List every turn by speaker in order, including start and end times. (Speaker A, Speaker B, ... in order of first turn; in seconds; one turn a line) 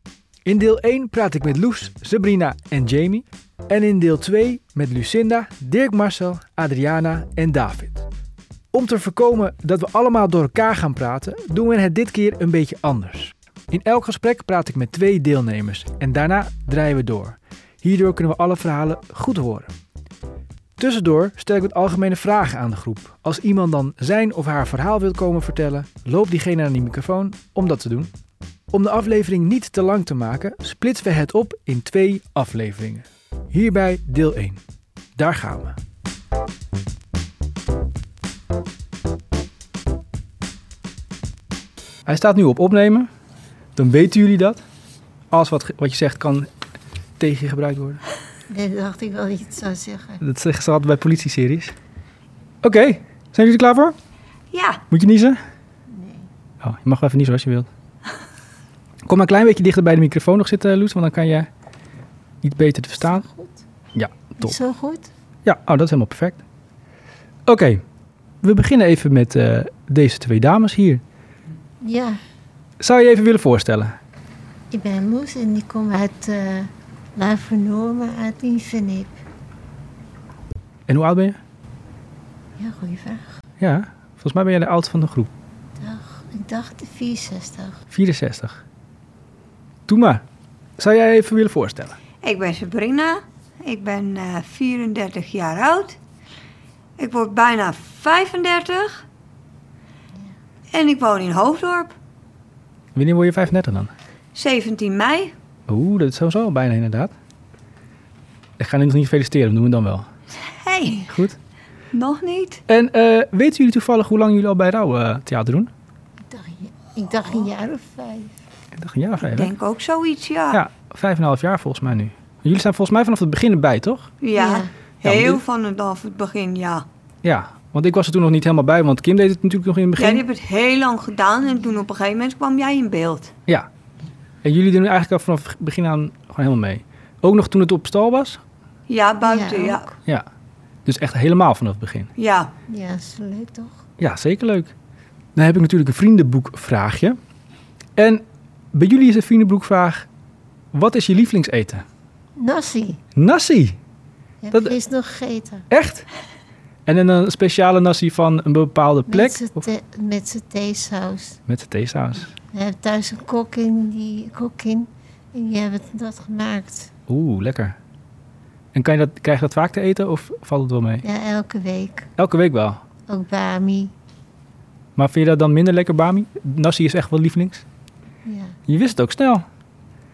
Speaker A: 0.5-8.1
Speaker A: 8.7-19.7
Speaker A: 20.8-28.1
Speaker A: 28.7-34.6
Speaker A: 35.1-35.8
Speaker A: 42.0-43.1
Speaker A: 43.8-44.6
Speaker A: 45.3-46.5
Speaker A: 47.2-48.0
Speaker B: 48.5-50.2
Speaker A: 50.2-51.7
Speaker A: 52.6-54.0
Speaker C: 54.5-54.8
Speaker A: 54.9-55.4
Speaker B: 55.9-56.3
Speaker A: 56.6-57.7
Speaker A: 59.0-61.5
Speaker A: 62.4-63.2
Speaker B: 63.0-63.6
Speaker A: 63.9-64.5
Speaker B: 64.3-65.1
Speaker A: 65.4-66.4
Speaker A: 67.5-67.8
Speaker A: 68.4-71.0
Speaker B: 71.8-72.2
Speaker A: 72.8-74.0
Speaker B: 74.7-79.2
Speaker A: 80.9-81.4
Speaker B: 82.6-83.4
Speaker A: 83.6-85.3
Speaker B: 85.8-87.8
Speaker A: 87.9-88.6
Speaker A: 89.9-90.2
Speaker A: 90.8-92.0
Speaker C: 92.2-96.0
Speaker C: 97.0-99.0
Speaker C: 100.7-101.9
Speaker A: 102.9-103.9
Speaker C: 104.3-105.3
Speaker A: 105.7-107.1
Speaker A: 108.6-110.1
Speaker C: 110.5-111.1
Speaker A: 111.1-111.4
Speaker C: 111.9-112.6
Speaker A: 112.7-115.7
Speaker B: 116.3-118.3
Speaker A: 118.7-119.5
Speaker C: 119.2-120.6
Speaker A: 120.5-124.1
Speaker C: 124.2-126.8
Speaker B: 124.3-124.7
Speaker A: 125.0-125.4
Speaker A: 127.2-130.2
Speaker C: 130.0-133.3
Speaker A: 134.4-138.4
Speaker C: 138.9-139.9
Speaker B: 139.2-139.8
Speaker A: 140.8-142.1
Speaker C: 142.2-142.5
Speaker B: 142.7-143.8
Speaker A: 144.0-144.7
Speaker A: 145.3-147.2
Speaker A: 148.0-148.2
Speaker A: 148.7-150.1
Speaker A: 150.7-151.8
Speaker B: 152.3-153.0
Speaker A: 153.2-153.8
Speaker B: 154.4-155.7
Speaker A: 155.7-156.1
Speaker A: 156.9-159.6
Speaker B: 159.1-161.4
Speaker A: 161.5-162.3
Speaker B: 162.5-166.9
Speaker A: 167.1-167.8
Speaker A: 168.7-171.0
Speaker B: 171.0-172.1
Speaker A: 172.2-172.8
Speaker B: 173.1-173.9
Speaker A: 174.9-177.6
Speaker B: 178.2-178.6
Speaker A: 178.7-179.4